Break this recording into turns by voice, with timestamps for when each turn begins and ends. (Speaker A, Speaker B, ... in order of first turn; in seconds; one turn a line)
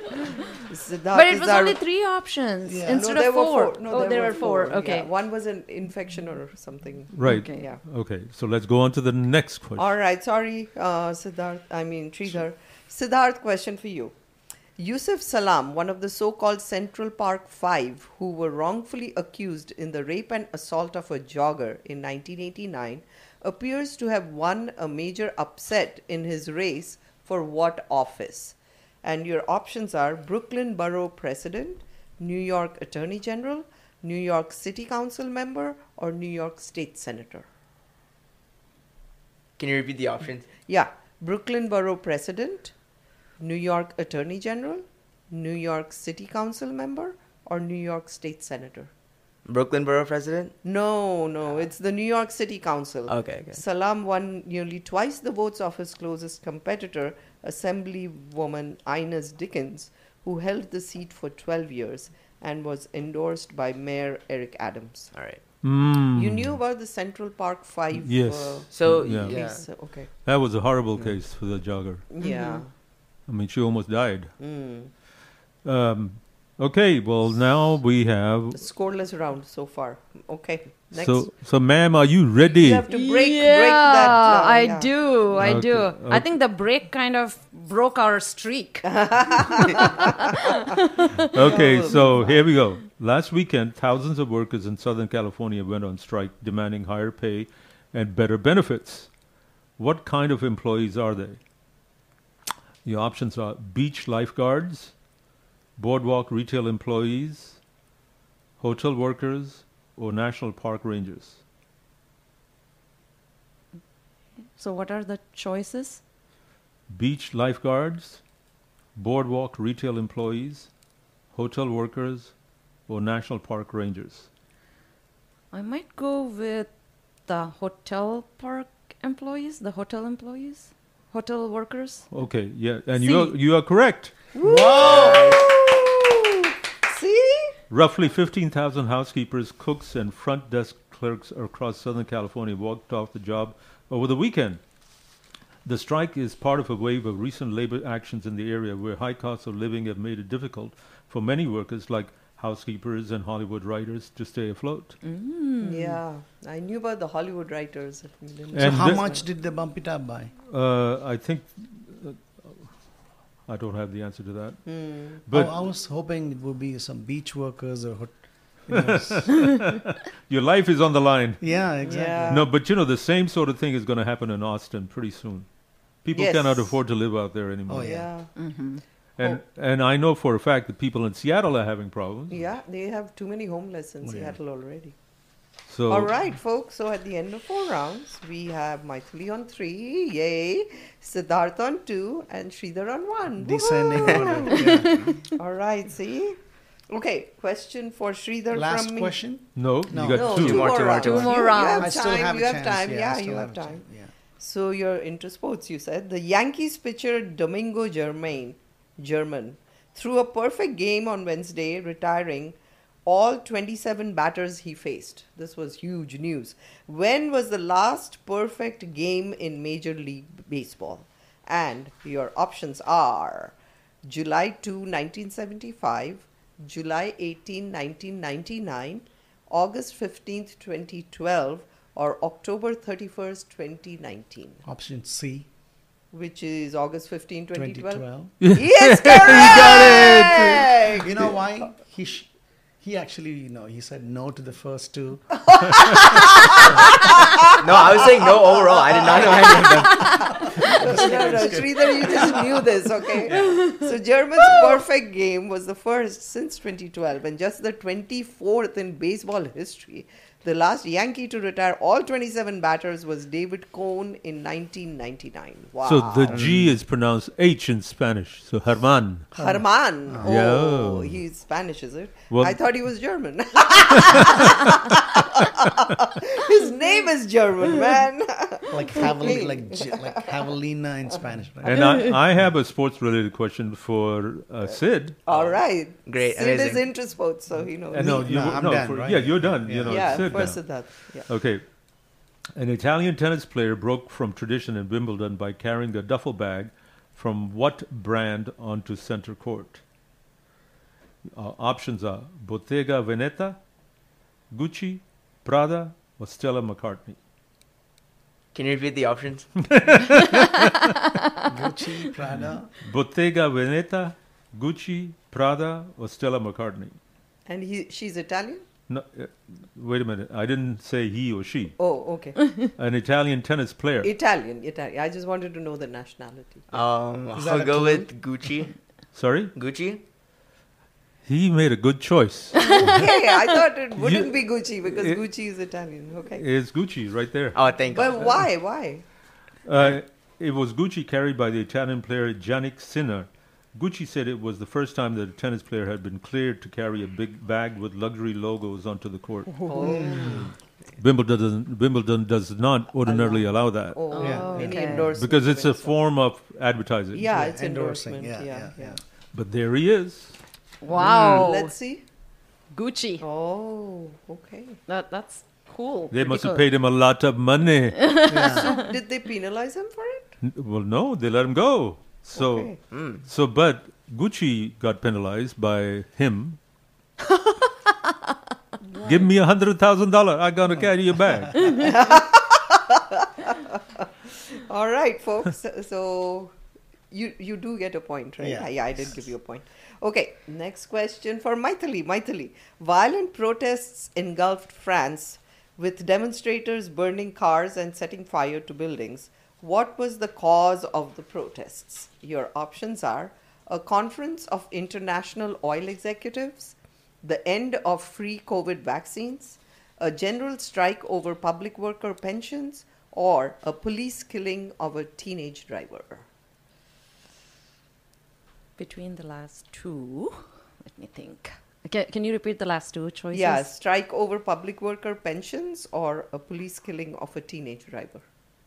Speaker A: 0.7-1.8
Speaker B: 1.1-5.1
Speaker C: 2.6-3.1
Speaker A: 2.9-7.8
Speaker D: 7.1-9.9
Speaker B: 7.2-7.7
Speaker A: 9.8-14.1
Speaker A: 14.8-37.5
Speaker E: 39.6-40.5
Speaker A: 40.7-42.7
Speaker A: 43.4-48.9
Speaker E: 49.5-50.5
Speaker A: 50.6-65.1
Speaker E: 53.1-53.6
Speaker E: 65.1-65.4
Speaker D: 65.6-66.6
Speaker A: 66.1-70.1
Speaker D: 68.0-69.4
Speaker E: 68.7-69.6
Speaker D: 70.2-72.0
Speaker A: 72.1-72.7
Speaker B: 72.2-72.6
Speaker D: 73.3-74.3
Speaker A: 74.4-74.9
Speaker D: 75.6-78.6
Speaker A: 78.5-81.3
Speaker D: 80.9-82.8
Speaker A: 82.5-84.9
Speaker B: 82.9-91.3
Speaker D: 85.4-86.3
Speaker A: 88.8-90.3
Speaker D: 91.3-99.1
Speaker A: 91.3-92.5
Speaker D: 99.8-101.4
Speaker D: 102.8-104.9
Speaker D: 105.8-107.6
Speaker D: 108.6-111.4
Speaker B: 114.5-116.0
Speaker D: 116.9-118.2
Speaker D: 119.0-120.7
Speaker D: 121.3-122.3
Speaker D: 122.9-124.3
Speaker B: 125.5-126.7
Speaker B: 127.3-132.1
Speaker D: 132.1-134.1
Speaker B: 133.0-133.3
Speaker A: 134.3-137.5
Speaker C: 134.4-135.4
Speaker E: 134.8-135.4
Speaker D: 137.7-144.6
Speaker D: 145.6-155.0
Speaker B: 155.0-156.0
Speaker A: 155.6-159.2
Speaker D: 158.5-159.1
Speaker C: 158.6-160.3
Speaker D: 160.5-162.7
Speaker D: 163.5-164.6
Speaker A: 164.7-165.2
Speaker D: 165.2-165.5
Speaker C: 165.3-169.4
Speaker D: 168.7-171.4
Speaker C: 171.4-172.5
Speaker A: 171.8-172.5
Speaker D: 172.3-175.5
Speaker D: 176.0-178.0
Speaker A: 176.1-176.7
Speaker C: 177.7-178.1
Speaker A: 177.8-178.3
Speaker B: 178.3-178.8
Speaker D: 179.2-182.4
Speaker A: 182.3-184.9
Speaker C: 184.0-184.4
Speaker D: 185.7-186.1
Speaker A: 185.9-196.4
Speaker C: 193.3-195.1
Speaker B: 194.6-195.0
Speaker A: 196.9-199.2
Speaker C: 198.5-200.5
Speaker D: 199.6-200.8
Speaker A: 200.1-203.8
Speaker E: 200.3-201.5
Speaker B: 200.9-201.9
Speaker C: 201.8-204.1
Speaker A: 204.4-234.6
Speaker C: 234.6-235.5
Speaker A: 236.1-241.3
Speaker C: 237.5-238.3
Speaker D: 238.4-240.7
Speaker C: 240.9-242.3
Speaker C: 242.8-246.9
Speaker A: 245.5-266.4
Speaker E: 247.6-250.3
Speaker C: 250.4-253.7
Speaker D: 265.8-269.3
Speaker E: 266.3-266.7
Speaker C: 269.3-270.4
Speaker A: 269.4-280.3
Speaker D: 270.2-271.2
Speaker D: 272.3-272.6
Speaker D: 274.0-274.6
Speaker C: 278.7-282.0
Speaker D: 281.6-285.2
Speaker A: 285.2-288.4
Speaker E: 285.3-286.8
Speaker D: 287.9-290.7
Speaker C: 287.9-290.5
Speaker A: 289.8-291.3
Speaker D: 291.3-291.6
Speaker D: 292.6-299.8
Speaker D: 301.2-303.6
Speaker D: 304.5-307.2
Speaker E: 308.5-309.5
Speaker D: 309.6-310.9
Speaker C: 311.4-312.7
Speaker D: 312.8-317.0
Speaker A: 317.5-318.6
Speaker D: 318.9-321.8
Speaker A: 321.8-322.4
Speaker D: 322.8-324.1
Speaker A: 324.0-326.7
Speaker E: 326.7-328.7
Speaker C: 327.3-328.1
Speaker D: 329.1-329.5
Speaker E: 329.5-330.0
Speaker D: 331.2-332.9
Speaker B: 332.6-332.9
Speaker A: 332.8-336.4
Speaker D: 333.9-335.2
Speaker D: 336.3-337.6
Speaker E: 337.5-338.4
Speaker A: 337.9-339.0
Speaker D: 339.6-349.6
Speaker B: 349.6-350.0
Speaker A: 349.7-350.5
Speaker C: 349.8-350.5
Speaker D: 351.0-354.0
Speaker A: 353.1-356.0
Speaker B: 354.1-355.1
Speaker C: 354.2-355.2
Speaker D: 355.1-357.3
Speaker A: 357.1-359.0
Speaker C: 357.2-359.0
Speaker D: 359.3-360.4
Speaker B: 360.8-361.7
Speaker A: 360.9-362.0
Speaker B: 362.7-363.2
Speaker A: 363.2-364.8
Speaker B: 364.9-366.6
Speaker D: 366.1-368.1
Speaker B: 368.0-368.9
Speaker C: 368.3-368.8
Speaker A: 368.3-370.3
Speaker D: 370.4-376.6
Speaker A: 372.4-372.8
Speaker E: 372.9-373.2
Speaker D: 379.1-381.8
Speaker A: 381.7-386.5
Speaker A: 387.1-416.2
Speaker C: 388.4-389.3
Speaker B: 418.8-423.7
Speaker A: 423.3-428.2